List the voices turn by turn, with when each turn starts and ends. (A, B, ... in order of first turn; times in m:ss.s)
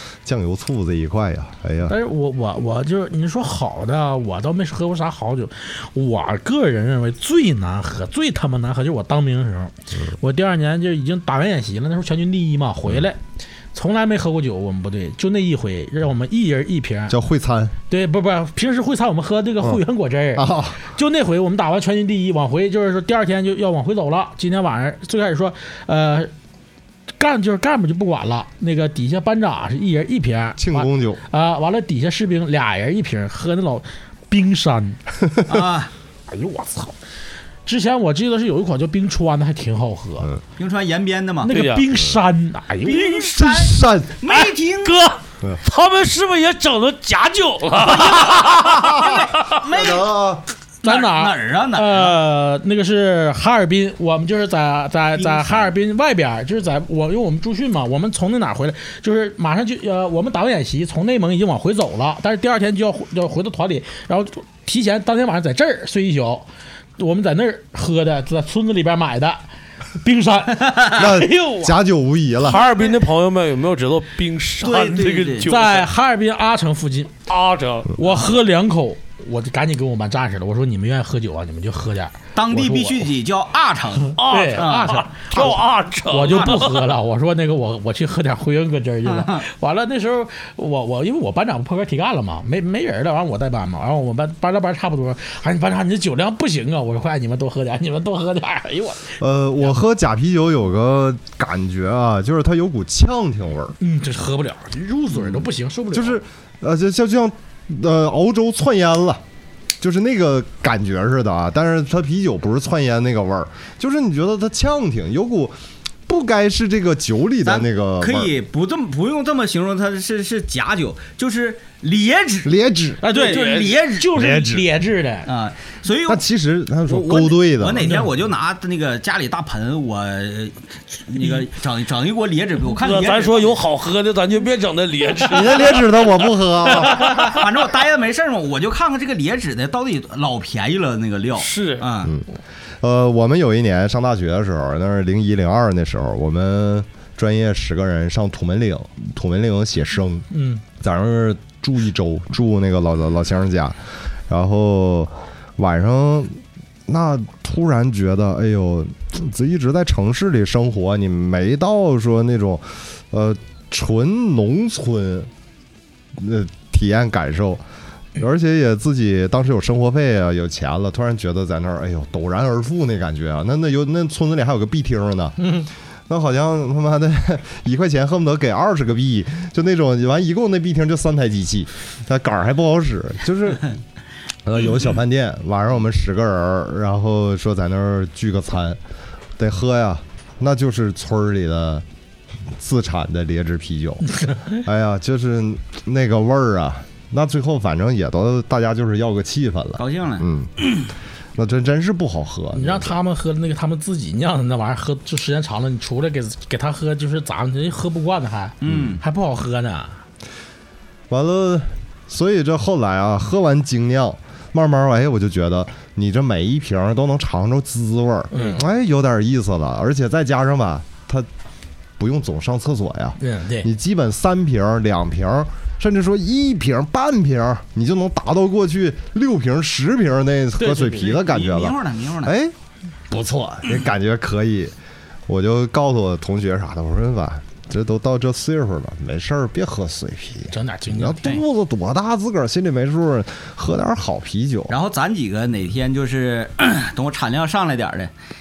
0:00.2-0:02.0 A
0:01.9-0:13.2 B
0:13.7-0:17.2 B
0:17.1-0:17.7 A
0:17.9-0:26.3 B
0:20.3-0:20.8 A
0:27.2-0:35.0 B
0:30.6-0:31.2 A
0:35.5-0:35.9 C
0:36.3-0:37.0 B
0:37.6-0:40.3 B
0:40.6-0:41.5 C
0:41.4-0:43.4 B
0:41.5-0:41.9 D
0:42.8-0:45.0 C
0:43.3-0:44.2 A
0:44.8-0:49.1 D
0:47.8-0:50.1 C
0:48.5-0:49.1 A
0:49.7-0:50.4 A
0:50.8-0:52.2 C
0:50.8-1:09.4 B
0:55.2-0:55.7 C
1:10.0-1:11.7 B
1:10.9-1:12.6 A
1:12.4-1:15.9 D
1:14.6-1:15.5 C
1:15.4-1:17.2 B
1:17.3-1:18.2 D
1:18.0-1:23.1 B
1:22.3-1:25.1 C
1:24.2-1:26.8 D
1:24.2-1:39.7 B
1:26.2-1:26.7 C
1:29.0-1:29.4 C
1:39.2-1:43.8 A
1:43.8-1:46.2 B
1:45.1-1:49.2 A
1:49.8-1:55.5 A
1:56.1-1:58.3 A
1:57.4-2:02.5 C
2:02.4-2:03.0 A
2:03.0-2:05.3 B
2:03.1-2:04.1 C
2:03.1-2:03.7 D
2:04.1-2:04.7 A
2:05.2-2:06.2 C
2:06.1-2:07.9 A
2:06.9-2:13.5 C
2:07.8-2:08.1 B
2:12.8-2:16.2 D
2:15.2-2:17.2 A
2:16.9-2:22.1 C
2:21.4-2:21.8 D
2:22.8-2:30.3 A
2:30.3-2:30.6 B
2:30.8-2:45.3 A
2:46.1-2:47.6 A
2:48.2-2:55.5 A
2:56.1-3:03.7 A
3:04.4-3:08.8 A
3:09.4-3:11.8 A
3:12.5-3:20.5 A
3:19.8-3:20.9 C
3:21.4-3:23.0 A
3:22.5-3:30.0 B
3:28.6-3:29.0 C
3:31.1-3:41.3 A
3:38.3-3:38.6 B
3:42.0-3:52.5 A
3:43.2-3:43.7 B
3:50.6-3:51.2 B
3:51.0-3:52.3 C
3:53.1-3:54.7 A
3:55.3-4:04.7 A
4:00.5-4:01.4 B
4:04.7-4:08.1 C